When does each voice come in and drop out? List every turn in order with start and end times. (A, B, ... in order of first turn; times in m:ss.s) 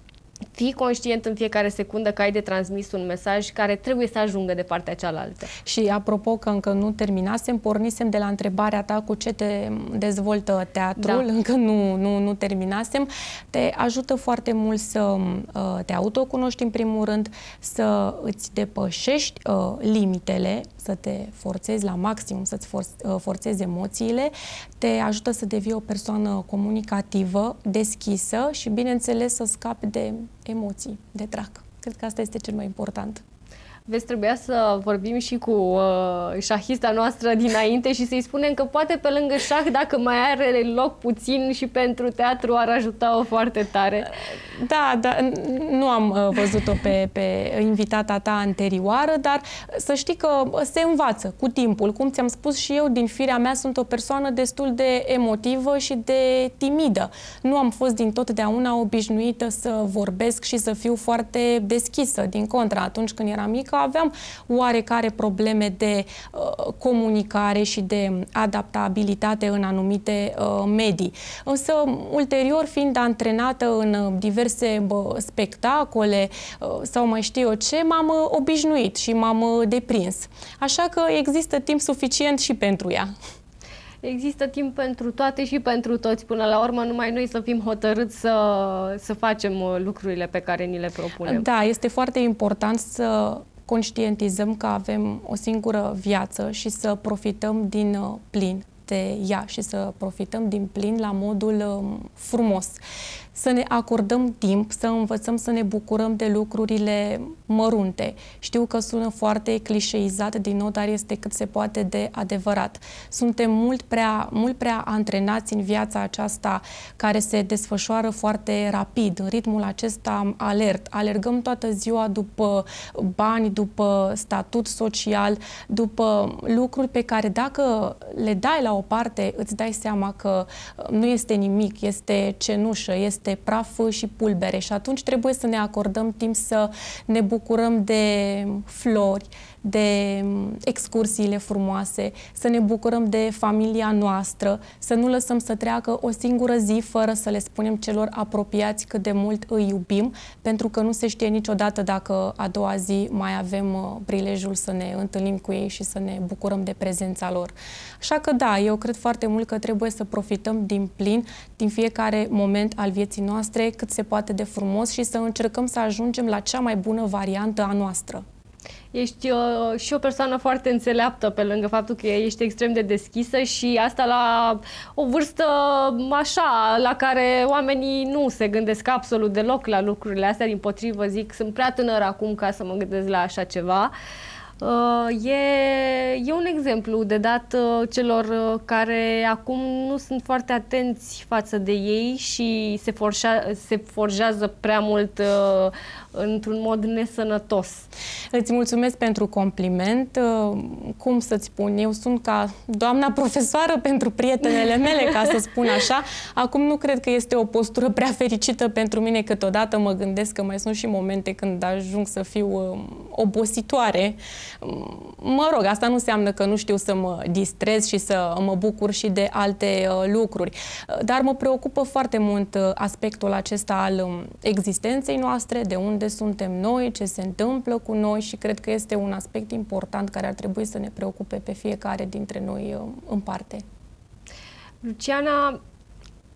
0:00.5-0:05.5 A
0:05.6-0:33.2 B
0:11.0-0:11.2 A
0:33.9-0:44.1 A
0:44.6-1:23.1 B
1:24.0-1:31.4 A
1:31.2-1:42.8 B
1:43.3-2:48.2 B
2:48.9-3:03.9 A
3:04.6-3:17.9 A
3:18.3-3:53.6 B
3:54.8-3:55.6 A